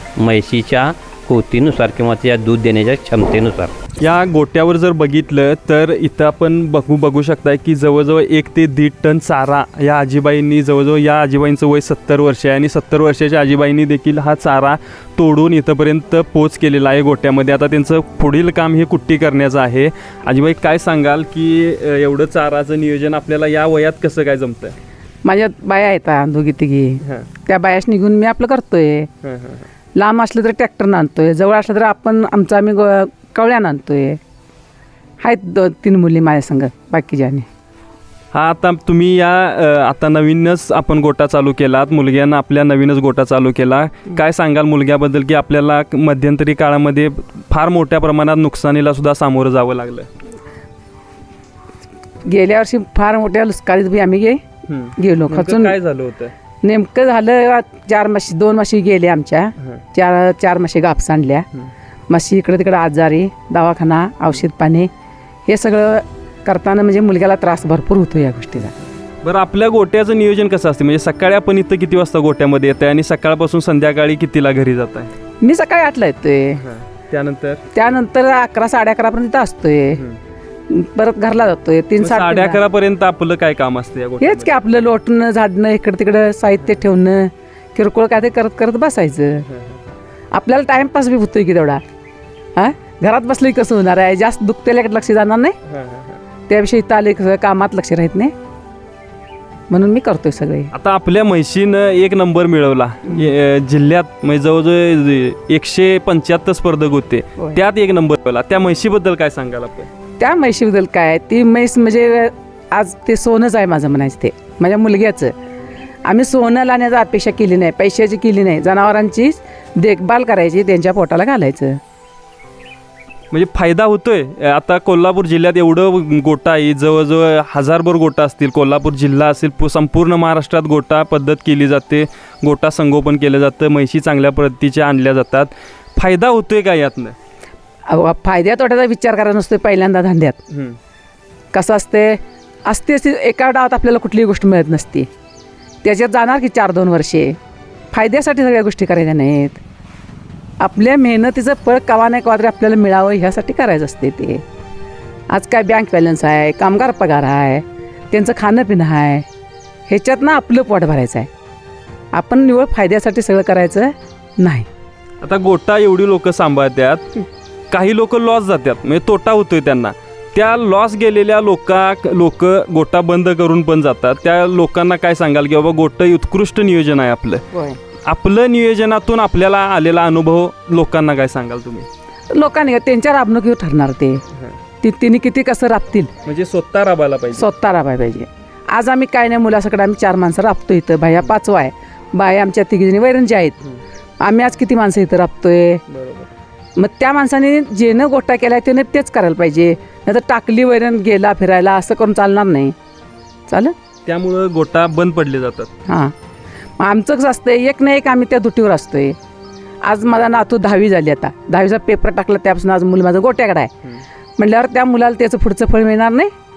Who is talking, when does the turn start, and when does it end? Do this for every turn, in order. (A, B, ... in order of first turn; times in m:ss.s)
0:00.2-0:03.7 A
0:04.0-0:24.8 B
0:25.2-0:29.1 C
0:29.2-0:29.6 B
0:29.9-0:34.2 C
0:35.2-0:37.4 C
0:38.3-0:50.1 B
0:52.2-0:54.4 C
0:54.7-0:56.3 B
0:55.0-0:55.7 C
0:56.6-1:01.4 C
1:02.1-1:04.9 C
1:05.5-1:08.7 C
1:09.2-1:15.1 B
1:15.4-1:16.6 C
1:16.6-1:17.6 B
1:17.7-1:20.0 C
1:20.7-1:22.6 C
1:22.0-1:24.6 B
1:24.2-1:29.4 C
1:29.5-1:29.8 B
1:30.3-1:31.8 C
1:32.5-1:35.6 C
1:35.7-1:36.2 B
1:36.5-1:38.3 C
1:39.7-1:40.7 C
1:40.7-1:49.9 B
1:50.2-1:55.3 C
1:56.0-2:01.8 C
2:03.3-2:17.2 B
2:17.9-2:20.4 C
2:20.5-2:20.8 B
2:21.5-2:25.1 C
2:25.8-2:27.4 C
2:27.9-2:29.6 C
2:30.6-2:34.4 C
2:35.3-2:39.2 C
2:39.9-2:41.3 C
2:42.1-2:44.7 C
2:45.2-2:47.1 B
2:47.7-2:57.4 B
2:57.5-2:57.8 C
2:58.0-3:01.9 B
3:02.3-3:04.2 C
3:04.8-3:06.1 C
3:06.2-3:07.5 B
3:07.4-3:13.6 C
3:14.2-3:15.8 C
3:15.9-3:16.3 B
3:16.8-3:22.7 C
3:23.5-3:23.7 C
3:24.0-3:25.7 B
3:25.9-3:26.1 C
3:26.8-3:29.2 C
3:29.8-3:33.7 C
3:34.4-3:36.3 C